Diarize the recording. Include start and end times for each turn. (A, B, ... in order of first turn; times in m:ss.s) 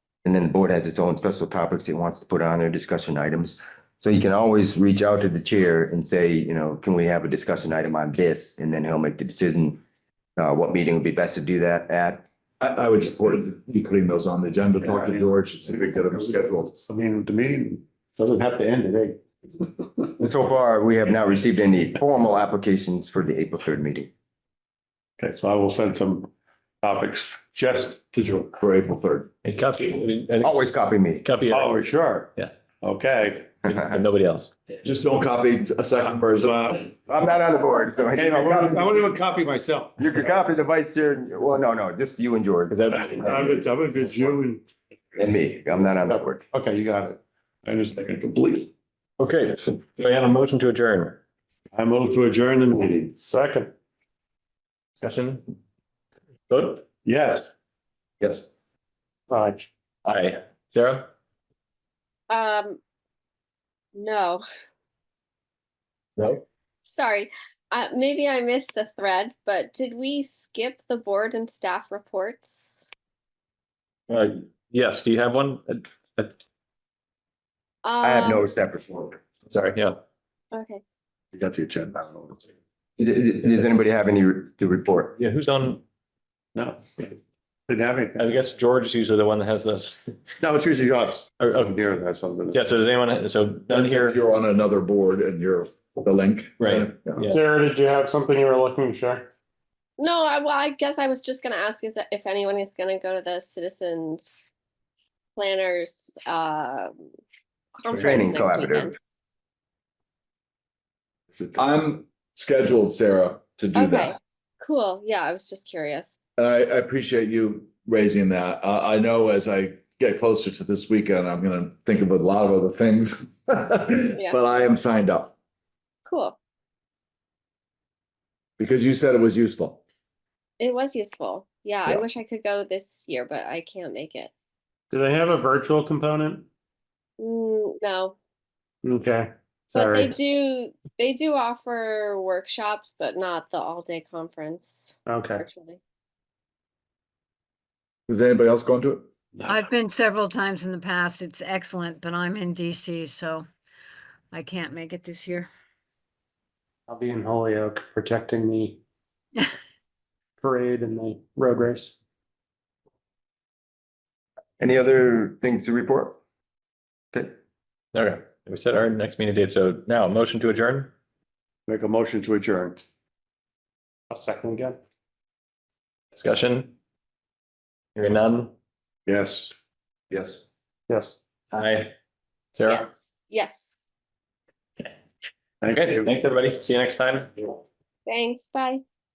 0:00.2-0:09.8 A
0:10.4-0:12.2 A
0:12.6-0:16.8 B
0:14.8-0:15.9 C
0:16.8-0:20.0 C
0:20.2-0:24.1 A
0:25.2-0:26.3 C
0:26.8-0:28.5 C
0:28.6-0:29.3 B
0:29.4-0:30.6 D
0:30.4-0:31.2 A
0:31.2-0:32.5 D
0:31.5-0:33.5 C
0:33.6-0:34.5 D
0:34.8-0:36.8 B
0:36.3-0:36.9 C
0:37.1-0:39.0 A
0:38.1-0:40.2 C
0:40.0-0:44.3 A
0:42.7-0:43.5 D
0:43.1-0:44.6 C
0:45.2-0:46.4 A
0:46.0-0:48.7 C
0:49.2-0:51.2 D
0:51.7-0:53.2 C
0:53.2-0:53.7 E
0:55.0-0:55.4 D
0:56.5-0:56.8 D
0:57.0-0:57.5 C
0:58.2-0:58.4 D
0:59.3-0:59.6 E
1:00.0-1:01.1 D
1:02.3-1:02.8 F
1:03.9-1:04.4 F
1:06.2-1:06.4 D
1:06.8-1:12.9 F
1:14.1-1:16.3 D
1:17.8-1:18.4 F
1:18.0-1:19.2 A
1:19.5-1:20.0 D
1:20.5-1:20.8 F
1:21.3-1:22.5 C
1:23.0-1:25.2 A
1:25.2-1:25.8 D
1:26.5-1:27.1 C
1:27.7-1:28.2 C
1:28.2-1:29.9 D
1:30.4-1:32.6 C
1:31.4-1:31.7 D
1:32.5-1:34.2 D
1:33.7-1:37.2 B
1:36.6-1:37.4 D
1:37.2-1:39.3 E
1:40.0-1:44.5 F
1:45.4-1:47.1 F
1:47.8-1:48.9 F
1:47.9-1:48.9 A
1:51.4-1:54.2 B
1:53.7-1:56.1 F
1:56.4-2:05.3 B
2:06.0-2:06.4 F
2:08.6-2:09.8 B
2:10.6-2:14.3 F
2:14.9-2:16.5 E
2:17.2-2:18.2 F
2:18.8-2:20.1 E
2:19.7-2:25.8 F
2:25.0-2:25.4 E
2:28.1-2:29.1 B
2:29.4-2:33.5 G
2:34.3-2:35.5 G
2:36.9-2:38.8 E
2:40.4-2:41.9 E
2:44.6-2:46.2 A
2:47.9-2:50.9 D
2:51.7-2:52.8 C
2:54.1-2:54.6 E
2:54.1-2:54.8 C
2:56.1-2:56.7 D
2:57.9-2:58.5 D
2:59.0-2:59.5 C
3:00.9-3:01.1 C
3:01.5-3:01.9 D
3:02.6-3:02.9 D
3:02.6-3:03.8 F
3:05.6-3:06.1 C
3:05.7-3:07.5 D
3:08.0-3:08.8 F